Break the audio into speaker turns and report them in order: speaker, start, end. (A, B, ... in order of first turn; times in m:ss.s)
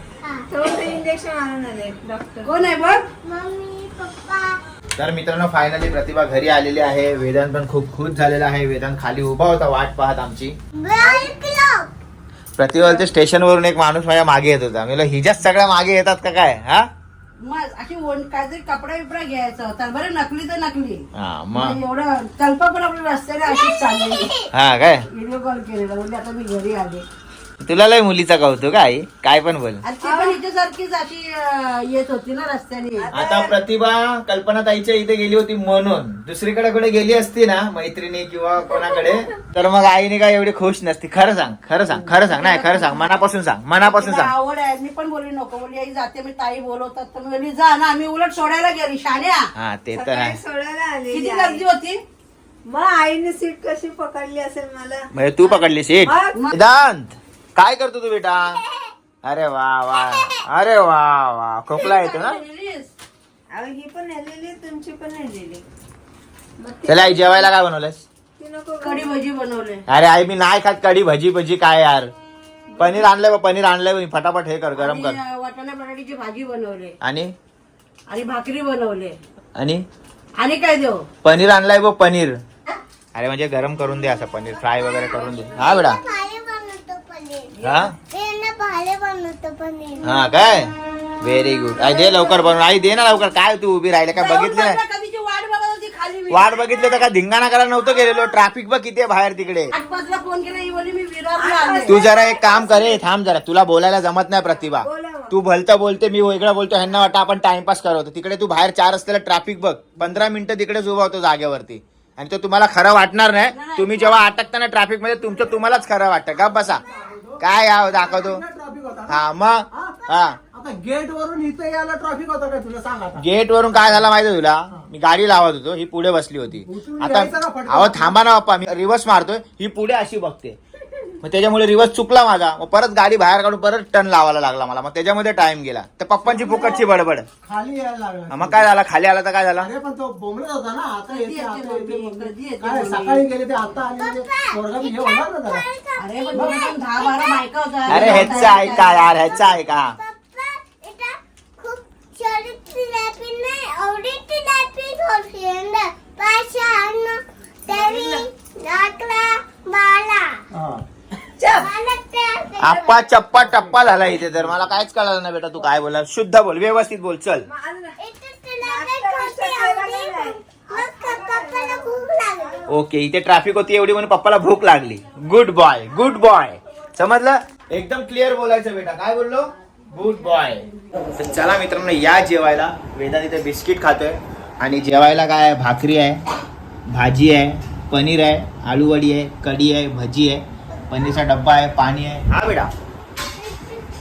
0:00.5-0:02.6 A
0:02.4-0:03.1 B
0:03.2-0:04.6 C
0:05.0-0:10.5 D
0:10.8-0:11.9 C
0:12.6-0:16.9 D
0:17.4-0:24.3 B
0:21.2-0:21.8 D
0:23.4-0:24.5 C
0:24.5-0:25.0 D
0:25.1-0:27.0 B
0:27.6-0:29.8 D
0:29.8-0:33.1 B
0:30.0-0:30.4 A
0:33.0-0:33.5 A
0:33.1-0:44.3 D
0:41.9-0:43.2 B
0:43.8-0:49.5 B
0:49.6-0:50.4 D
0:49.9-0:51.6 A
0:51.1-0:52.0 B
0:52.7-0:55.5 A
0:55.1-0:58.6 D
0:56.1-0:56.4 A
0:56.3-0:56.6 B
0:58.6-0:58.9 C
0:59.2-1:02.4 D
1:00.0-1:00.4 C
1:01.7-1:02.9 B
1:03.5-1:05.6 A
1:06.6-1:07.5 A
1:06.9-1:08.0 D
1:08.4-1:09.2 A
1:08.8-1:09.8 B
1:09.9-1:12.1 D
1:12.7-1:13.0 A
1:12.8-1:15.2 D
1:14.8-1:17.0 B
1:17.0-1:17.3 D
1:18.1-1:19.2 B
1:19.6-1:19.8 D
1:20.4-1:21.1 B
1:21.2-1:22.4 D
1:23.2-1:26.0 D
1:24.7-1:30.2 C
1:27.6-1:27.9 B
1:27.6-1:27.9 D
1:30.0-1:34.8 D
1:31.8-1:32.5 C
1:34.2-1:36.5 B
1:36.3-1:39.7 D
1:36.6-1:37.1 C
1:37.8-1:38.4 C
1:39.7-1:42.0 B
1:41.4-1:43.0 A
1:41.9-1:56.8 D
1:44.8-1:45.3 A
1:53.5-1:54.2 B
1:57.0-1:57.4 E
1:57.4-1:58.4 D
1:58.0-1:59.2 E
1:59.1-2:00.4 D
2:00.5-2:03.2 E
2:03.2-2:10.6 D
2:06.7-2:08.1 E
2:11.2-2:17.3 D
2:16.3-2:16.8 E
2:17.4-2:18.6 E
2:18.3-2:19.7 D
2:19.6-2:25.6 E
2:21.1-2:23.8 B
2:23.8-2:27.5 C
2:26.0-2:29.0 B
2:26.3-2:26.8 E
2:27.9-2:30.0 D
2:28.2-2:40.4 C
2:37.7-2:38.2 A
2:40.6-2:40.8 E
2:41.4-2:41.7 A
2:41.5-2:43.0 C
2:42.6-2:47.5 D
2:47.5-2:48.0 A
2:48.0-2:52.7 C
2:48.6-2:51.9 A
2:52.7-3:06.2 D
3:06.9-3:12.7 D
3:13.4-3:13.8 C